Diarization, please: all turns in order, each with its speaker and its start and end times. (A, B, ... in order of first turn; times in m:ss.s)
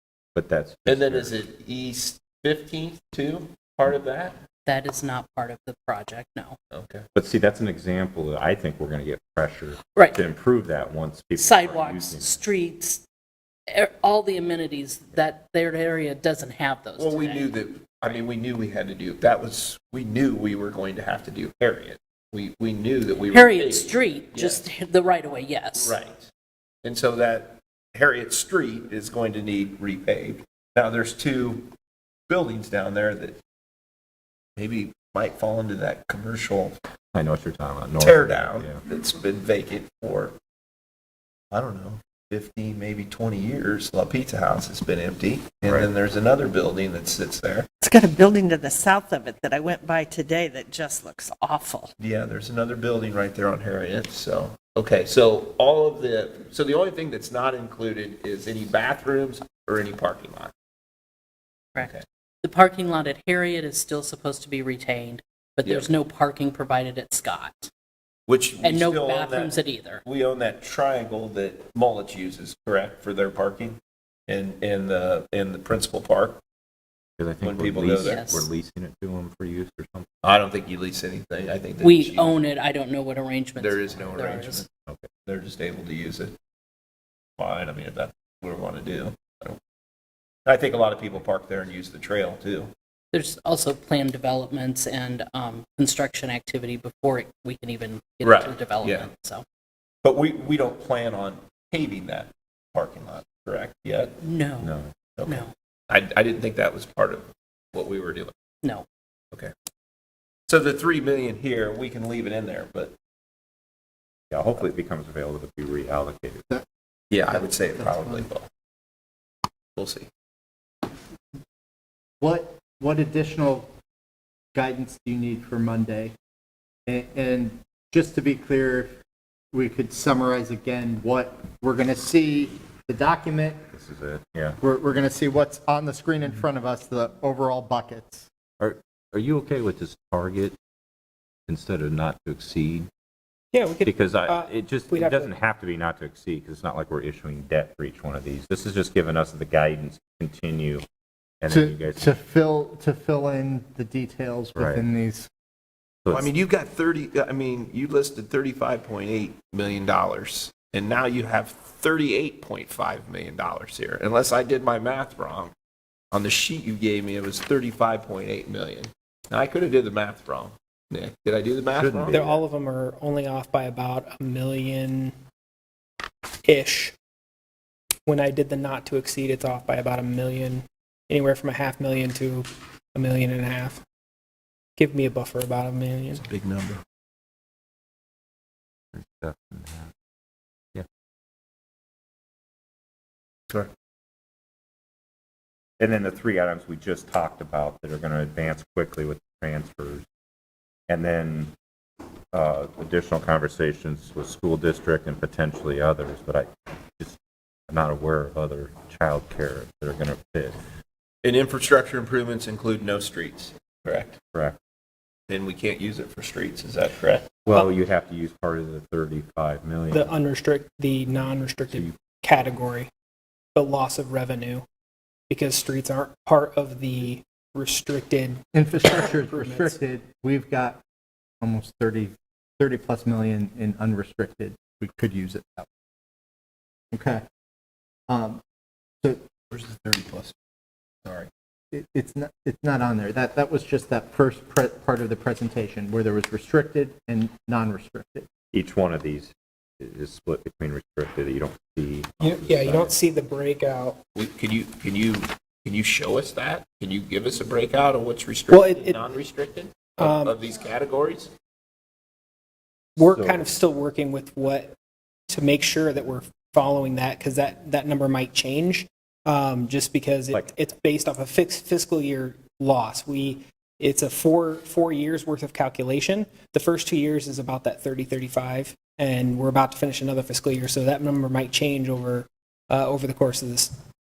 0:00.3-0:01.4 A
0:00.8-0:04.4 B
0:04.6-0:06.6 C
0:06.7-0:07.0 B
0:07.1-0:12.3 A
0:09.9-0:10.2 C
0:11.4-0:13.0 C
0:13.7-0:18.2 C
0:17.0-0:24.6 B
0:23.3-0:26.0 C
0:25.7-0:26.3 B
0:26.8-0:31.7 B
0:32.3-0:33.4 B
0:34.6-0:36.8 B
0:37.1-0:38.8 A
0:38.0-0:40.4 B
0:41.5-0:47.7 B
0:45.6-0:45.9 A
0:47.8-0:51.9 D
0:52.0-1:00.5 B
1:01.7-1:07.7 C
1:01.8-1:02.0 B
1:08.3-1:16.4 B
1:08.6-1:10.0 C
1:17.2-1:20.1 A
1:17.4-1:18.3 B
1:18.0-1:18.5 C
1:20.2-1:22.4 B
1:21.8-1:24.6 C
1:23.6-1:24.7 B
1:25.2-1:26.3 B
1:27.4-1:29.6 B
1:30.4-1:32.7 B
1:33.1-1:39.4 C
1:38.2-1:39.1 B
1:40.0-1:44.2 B
1:44.2-1:44.7 C
1:44.6-1:44.9 A
1:45.2-1:48.3 B
1:45.2-1:45.5 C
1:50.5-1:52.9 B
1:54.3-1:56.4 A
1:57.1-1:58.4 B
1:57.3-1:58.3 E
1:59.8-2:00.1 B
2:02.2-2:03.7 E
2:04.5-2:06.1 E
2:06.9-2:09.0 E
2:09.5-2:13.6 E
2:13.7-2:14.6 A
2:14.6-2:18.3 E
2:18.6-2:20.6 A
2:21.5-2:22.9 A
2:23.5-2:25.3 F
2:23.8-2:30.8 A
2:31.4-2:32.1 A
2:31.5-2:35.3 E
2:34.5-2:34.8 A
2:36.0-2:36.3 A
2:36.1-2:45.5 B
2:46.1-2:52.2 B
2:51.7-2:52.4 A
2:52.1-2:55.1 F
2:56.4-2:57.0 F
2:58.0-3:03.8 F
3:04.8-3:06.2 F
3:06.1-3:06.8 B
3:08.9-3:09.9 A
3:15.8-3:20.0 A
3:20.9-3:21.5 A
3:22.3-3:30.6 A
3:31.2-3:34.2 B
3:34.3-3:34.6 A
3:35.3-3:37.3 B
3:37.4-3:40.2 A
3:39.9-3:42.9 F
3:41.7-3:42.0 A
3:43.5-3:44.6 F
3:45.3-3:49.8 F
3:48.5-3:50.8 E
3:51.4-3:55.7 E
3:56.9-3:57.2 E
3:58.1-3:58.4 E
3:59.5-4:00.3 B
4:01.0-4:01.3 B
4:01.7-4:08.3 E
4:08.5-4:13.0 A
4:12.2-4:14.0 F
4:14.1-4:21.3 B
4:18.5-4:19.0 F
4:20.0-4:20.4 F
4:23.0-4:24.7 F
4:23.0-4:23.5 A
4:25.3-4:43.7 F